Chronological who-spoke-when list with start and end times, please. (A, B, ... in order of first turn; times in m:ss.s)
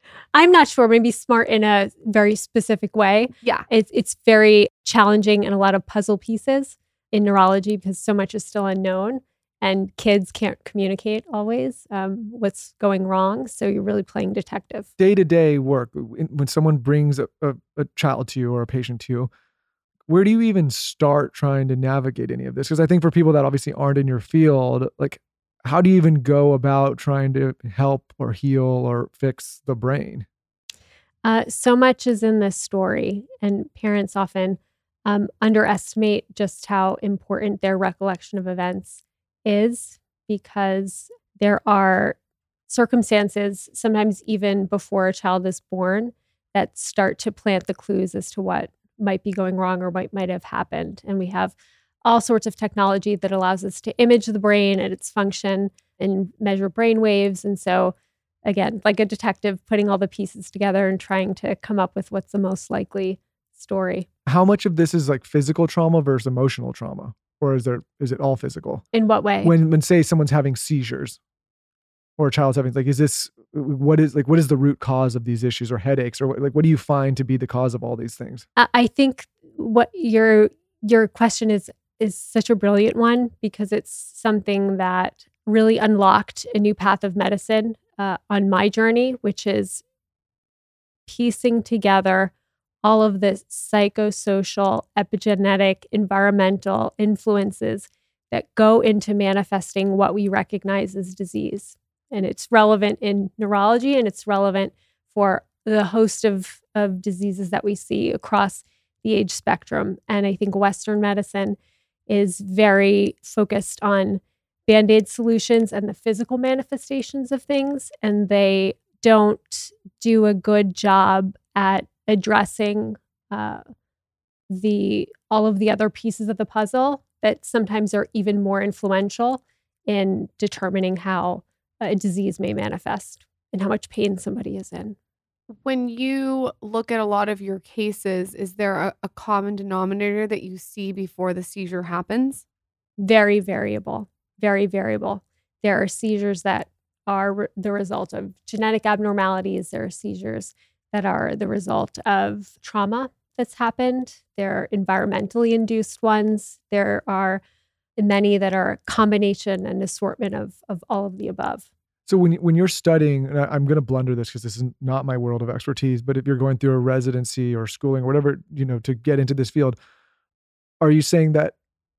0:00.3-0:14.9 A
0:15.0-0:19.3 B
0:20.1-0:30.2 B
0:31.2-0:42.2 A
0:42.7-1:04.1 A
1:04.3-1:08.8 B
1:08.9-1:09.5 A
1:09.4-1:11.2 B
1:12.2-1:18.4 B
1:18.6-1:29.8 A
1:31.1-1:32.3 A
1:32.8-1:51.6 A
1:52.1-2:03.6 A
2:04.5-2:15.0 A
2:15.6-2:22.4 C
2:23.0-2:37.4 A
2:38.0-2:41.7 A
2:42.1-2:49.8 B
2:50.8-2:51.5 B